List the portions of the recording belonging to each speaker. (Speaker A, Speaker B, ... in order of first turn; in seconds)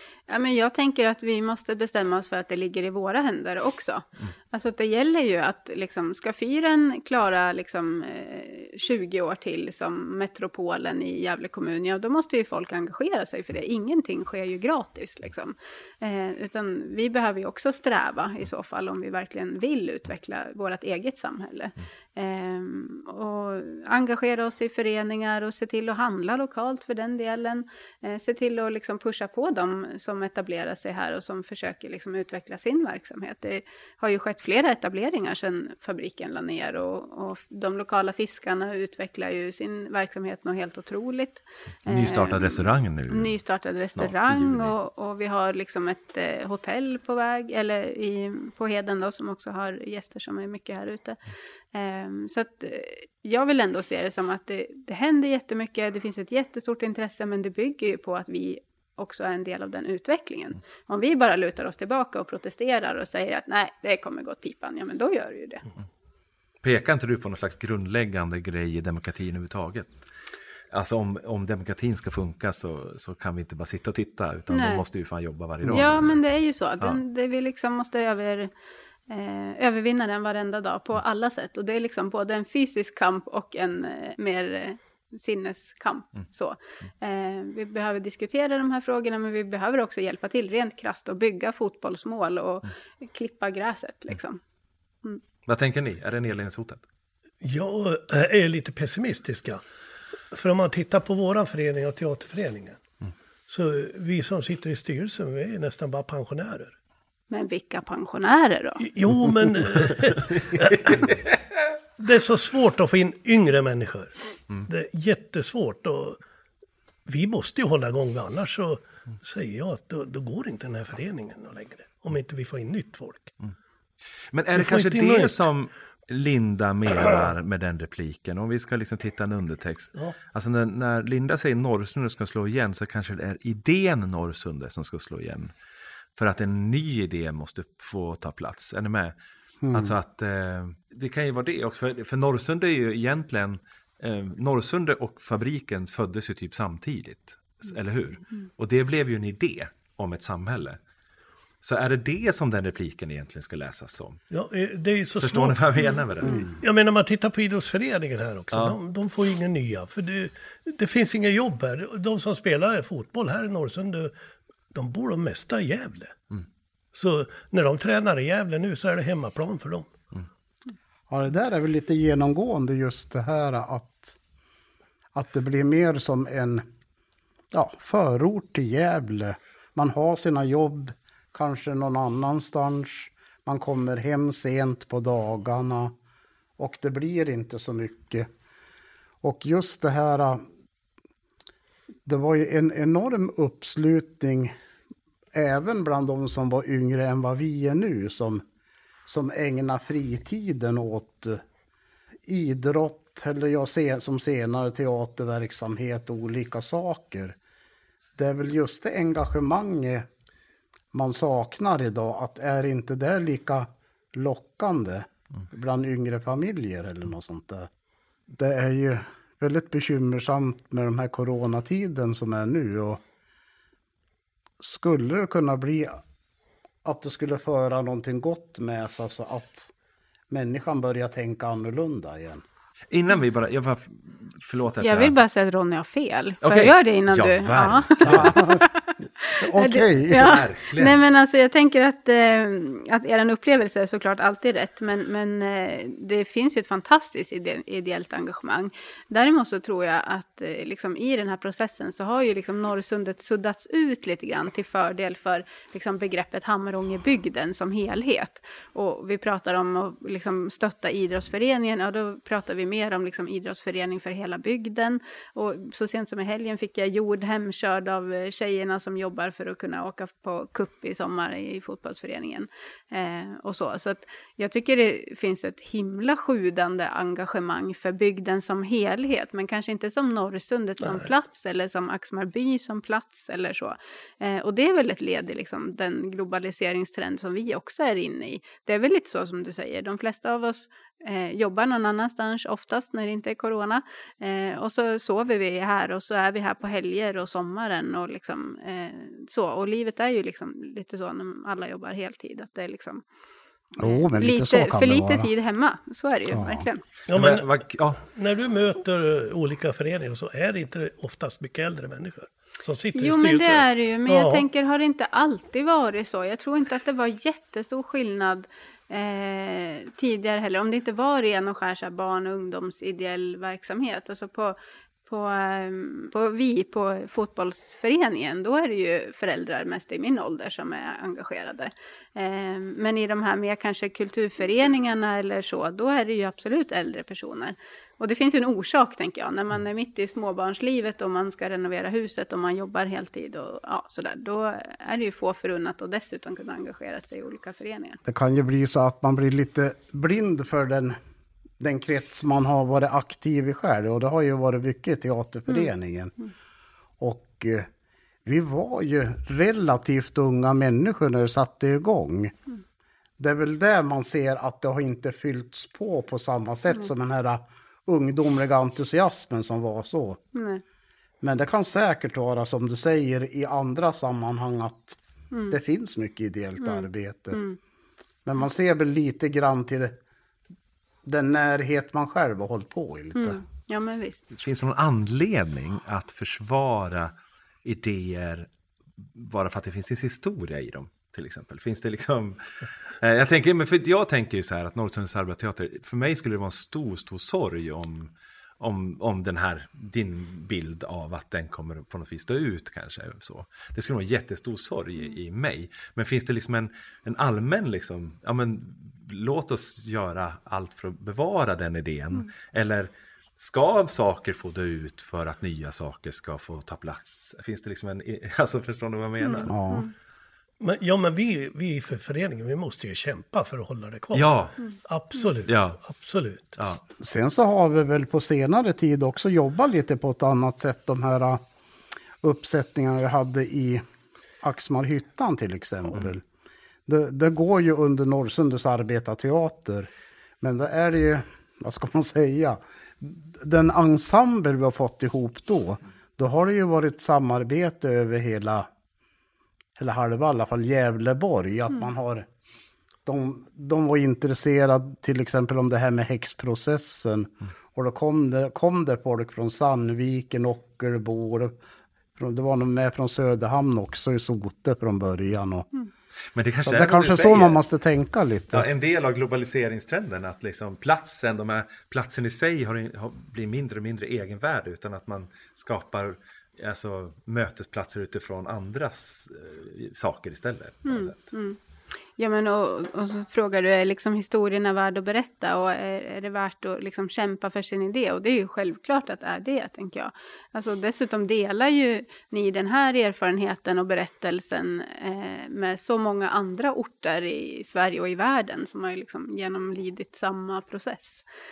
Speaker A: 0.3-51.2, 51.7-65.6, 74.5-74.8, 75.7-78.5, 79.1-94.4, 107.3-108.8, 234.8-303.0, 303.8-306.8, 312.9-324.6, 325.1-348.0, 370.3-370.6, 375.3-375.6, 376.6-377.6, 383.1-384.2, 419.2-419.9, 480.9-481.6, 482.2-501.2
Speaker B: 41.9-43.4, 44.0-44.7, 66.6-70.0, 70.7-76.2, 95.5-96.8, 110.7-111.3, 124.3-135.5, 136.2-139.1, 139.7-150.8, 151.6-154.2, 155.2-156.4, 232.9-235.1, 236.4-238.4, 240.1-241.0, 307.1-308.0, 384.4-387.1, 387.6-388.5, 389.1-419.6, 424.1-424.6, 425.4-425.8, 466.4-467.6, 468.5-481.2
Speaker C: 75.6-75.9, 139.6-139.9, 156.2-156.5, 171.1-174.2, 175.1-176.6, 177.5-185.9, 186.6-188.3, 189.2-190.4, 192.0-194.5, 195.3-198.4, 199.1-201.4, 202.2-207.4, 208.2-210.1, 210.9-217.7, 218.3-223.0, 224.6-226.0, 226.8-229.7, 230.3-232.4, 238.0-238.6, 239.4-240.3, 303.8-305.3, 306.3-306.7, 348.1-351.0, 351.6-356.1, 357.0-357.7, 358.2-362.4, 363.2-370.2, 371.2-375.0, 375.5-377.4, 378.2-379.9, 381.1-383.4, 419.5-419.9, 426.8-431.4, 432.2-433.8, 434.4-436.2, 436.9-439.9, 440.4-448.7, 449.8-452.2, 453.1-461.6, 462.1-465.7, 466.6-468.7
Speaker D: 97.4-99.6, 100.3-102.8, 103.5-106.8, 108.8-111.2, 112.0-114.1, 114.7-116.2, 117.1-123.3, 124.5-125.5, 154.3-155.6, 156.6-164.1, 164.7-166.2, 166.9-169.9, 307.1-314.4, 420.6-426.6